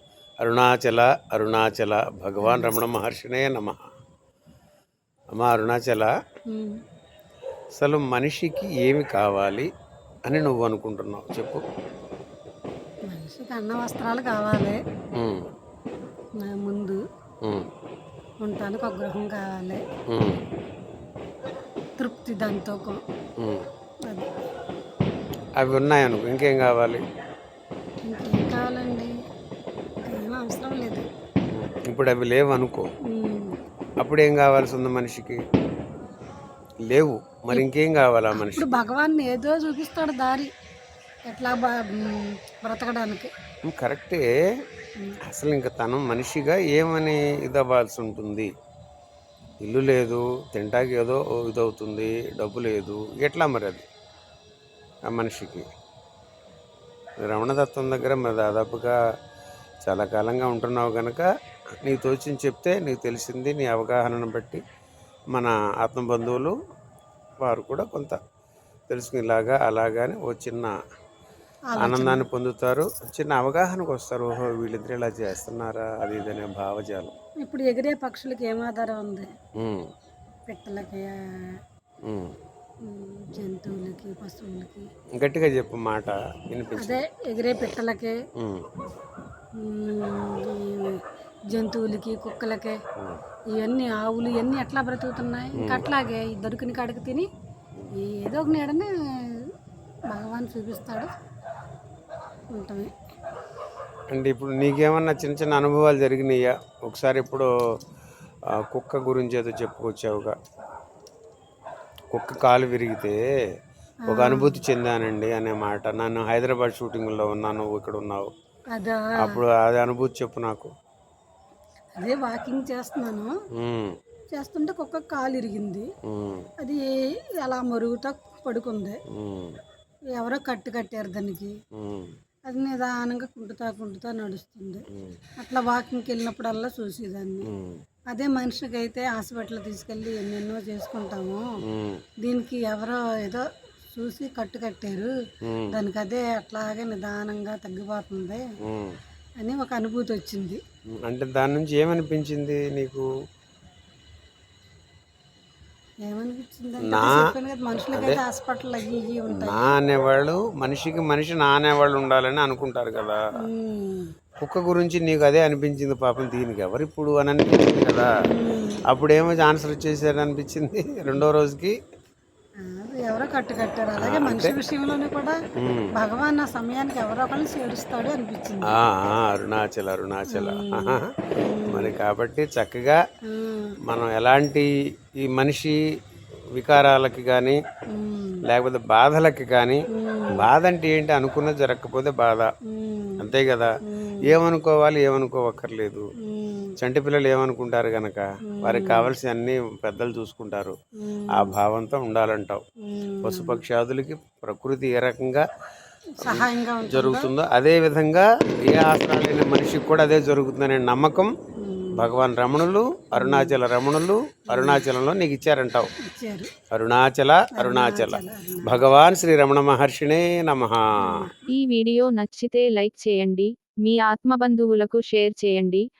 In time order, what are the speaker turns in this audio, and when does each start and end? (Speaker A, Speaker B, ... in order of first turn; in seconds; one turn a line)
Speaker A: 0.4-3.8
Speaker B: 2.4-2.8
Speaker A: 5.3-6.1
Speaker B: 6.5-6.8
Speaker A: 7.8-9.7
Speaker A: 10.2-11.6
Speaker B: 13.1-14.8
Speaker A: 15.2-15.5
Speaker B: 16.4-17.0
Speaker B: 18.4-19.8
Speaker A: 20.1-20.4
Speaker B: 22.0-23.0
Speaker A: 23.4-23.6
Speaker A: 25.6-27.0
Speaker B: 28.1-29.1
Speaker B: 30.1-31.0
Speaker A: 31.5-32.9
Speaker B: 33.1-33.5
Speaker A: 34.0-35.4
Speaker A: 36.9-38.7
Speaker B: 38.3-40.5
Speaker B: 41.3-43.3
Speaker A: 43.6-44.2
Speaker A: 45.2-48.5
Speaker A: 49.6-53.9
Speaker A: 55.1-55.7
Speaker A: 57.2-58.9
Speaker A: 59.8-61.3
Speaker A: 61.8-64.6
Speaker A: 65.3-66.5
Speaker A: 67.4-68.2
Speaker A: 68.9-70.7
Speaker B: 71.7-72.3
Speaker A: 71.8-77.1
Speaker B: 77.4-79.3
Speaker A: 79.6-79.9
Speaker B: 80.5-81.5
Speaker A: 82.1-82.3
Speaker B: 82.8-84.9
Speaker A: 85.2-87.0
Speaker B: 86.8-88.1
Speaker A: 88.4-88.7
Speaker B: 89.6-91.0
Speaker B: 91.5-92.8
Speaker B: 93.5-97.2
Speaker A: 95.6-95.9
Speaker B: 98.0-98.9
Speaker B: 100.1-101.1
Speaker B: 102.5-102.9
Speaker A: 104.1-107.5
Speaker A: 108.6-110.3
Speaker A: 112.1-113.2
Speaker B: 114.1-114.6
Speaker A: 114.1-118.3
Speaker B: 118.7-119.4
Speaker A: 119.2-120.7
Speaker B: 122.0-123.3
Speaker A: 123.5-124.0
Speaker B: 124.3-125.8
Speaker A: 126.0-126.5
Speaker B: 127.4-129.0
Speaker A: 129.1-129.6
Speaker B: 130.2-131.5
Speaker A: 131.8-132.1
Speaker B: 132.5-134.8
Speaker B: 135.4-137.5
Speaker A: 137.4-137.8
Speaker B: 138.1-141.4
Speaker A: 141.7-142.0
Speaker B: 142.2-145.1
Speaker A: 145.4-145.7
Speaker B: 145.7-148.4
Speaker A: 148.6-148.9
Speaker B: 149.4-150.6
Speaker A: 150.9-153.1
Speaker B: 156.1-159.7
Speaker A: 156.8-157.3
Speaker A: 157.9-158.2
Speaker A: 159.3-163.2
Speaker B: 163.4-164.1
Speaker A: 164.4-168.1
Speaker B: 168.3-168.8
Speaker A: 168.9-171.7
Speaker B: 172.6-175.3
Speaker A: 174.0-174.5
Speaker A: 175.6-175.9
Speaker B: 175.9-178.7
Speaker A: 178.7-181.1
Speaker B: 180.3-181.9
Speaker A: 181.7-183.0
Speaker B: 183.3-183.7
Speaker A: 183.9-184.7
Speaker A: 185.2-185.8
Speaker A: 186.6-187.6
Speaker B: 187.9-188.4
Speaker A: 188.5-192.5
Speaker B: 189.9-190.4
Speaker B: 192.7-193.2
Speaker A: 193.2-193.7
Speaker B: 193.9-194.3
Speaker A: 194.3-196.0
Speaker B: 196.2-196.7
Speaker A: 196.8-200.7
Speaker B: 198.5-199.1
Speaker B: 201.0-201.5
Speaker A: 201.3-202.6
Speaker B: 202.8-203.6
Speaker A: 203.2-205.4
Speaker B: 206.2-207.3
Speaker A: 206.2-211.3
Speaker B: 211.6-212.1
Speaker A: 212.0-215.9
Speaker B: 213.2-213.6
Speaker B: 214.5-214.8
Speaker B: 216.0-216.5
Speaker A: 216.7-221.2
Speaker B: 217.5-218.8
Speaker B: 221.0-221.4
Speaker C: 221.5-225.8